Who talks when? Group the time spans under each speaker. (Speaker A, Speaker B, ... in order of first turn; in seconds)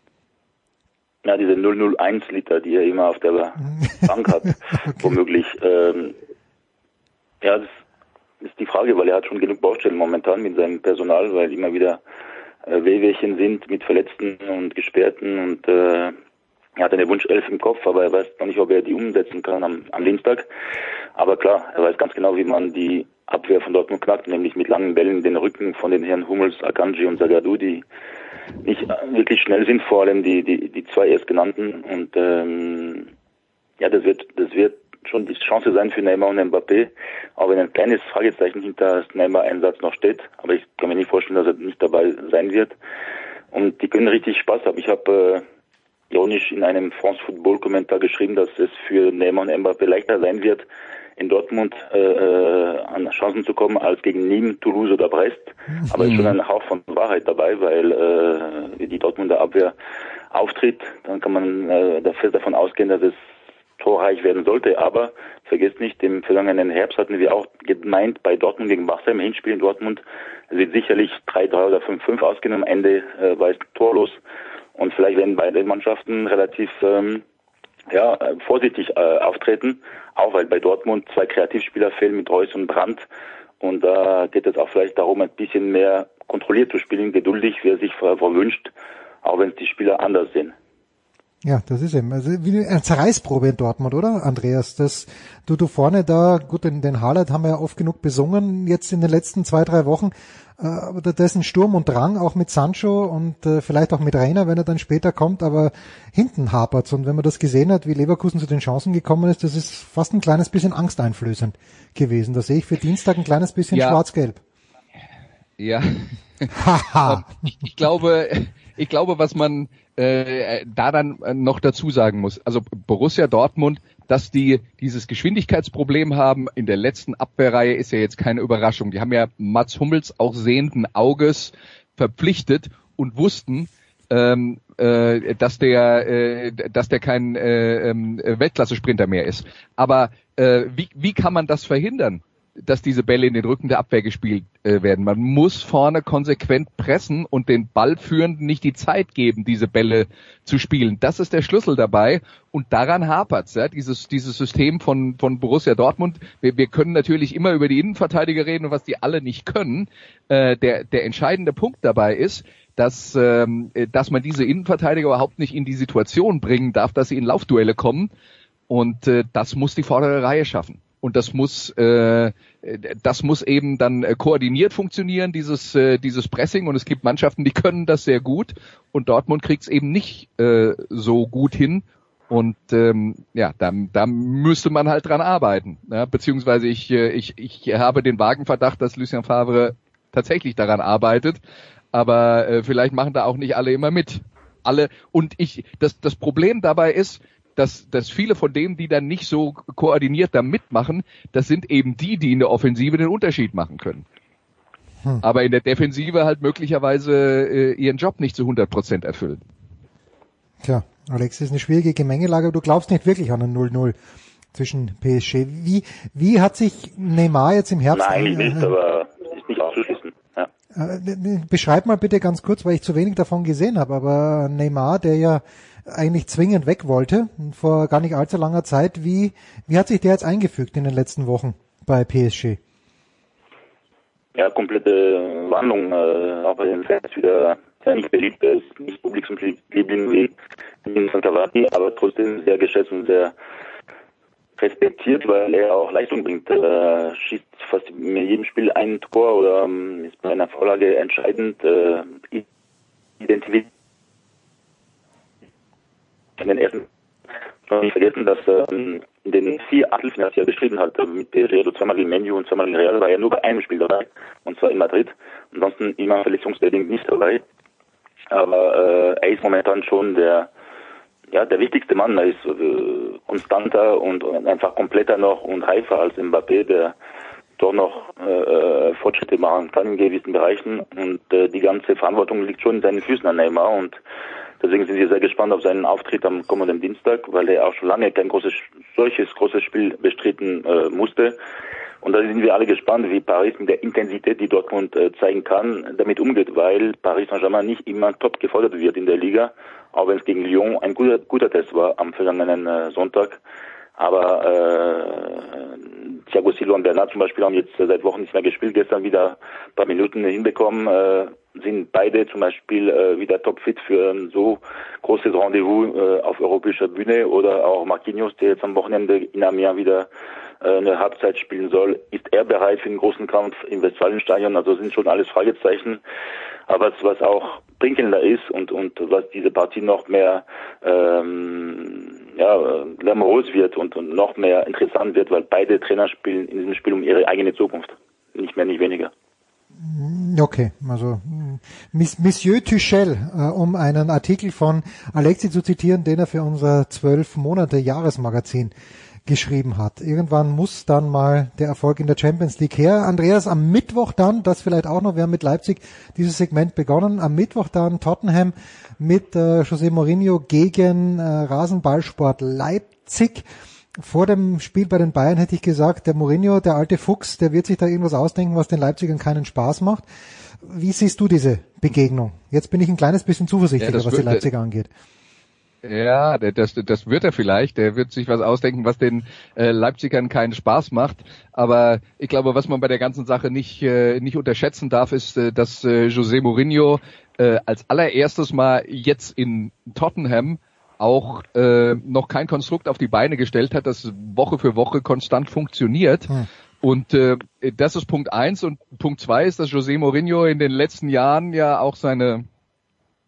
Speaker A: 1.2-6.2, 7.4-7.7, 8.4-12.0, 12.7-16.1, 16.8-20.5, 21.1-27.8, 28.6-33.1, 33.8-42.7, 43.5-45.4, 46.1-50.6, 51.2-59.7, 60.3-63.2, 63.8-74.2, 74.8-77.2, 77.9-83.0, 83.6-88.7, 89.2-90.5, 217.9-220.5, 234.3-243.3, 244.6-252.4, 253.2-253.7, 256.4-256.9, 257.7-267.4, 268.3-270.5, 271.3-276.9, 277.6-284.0, 284.6-291.4, 292.0-303.4, 304.0-320.1, 320.6-326.0, 326.7-339.1
Speaker B: 3.8-5.2, 91.4-114.4, 116.5-117.2, 210.6-214.0, 214.5-218.7, 220.7-232.6, 339.8-348.7, 349.2-363.4, 364.0-370.1, 370.6-374.9
Speaker C: 56.0-56.3, 113.7-114.0, 115.6-116.5, 117.0-168.1, 168.7-191.4, 191.9-204.0, 205.2-209.4, 373.8-374.4, 375.8-396.3, 396.8-402.4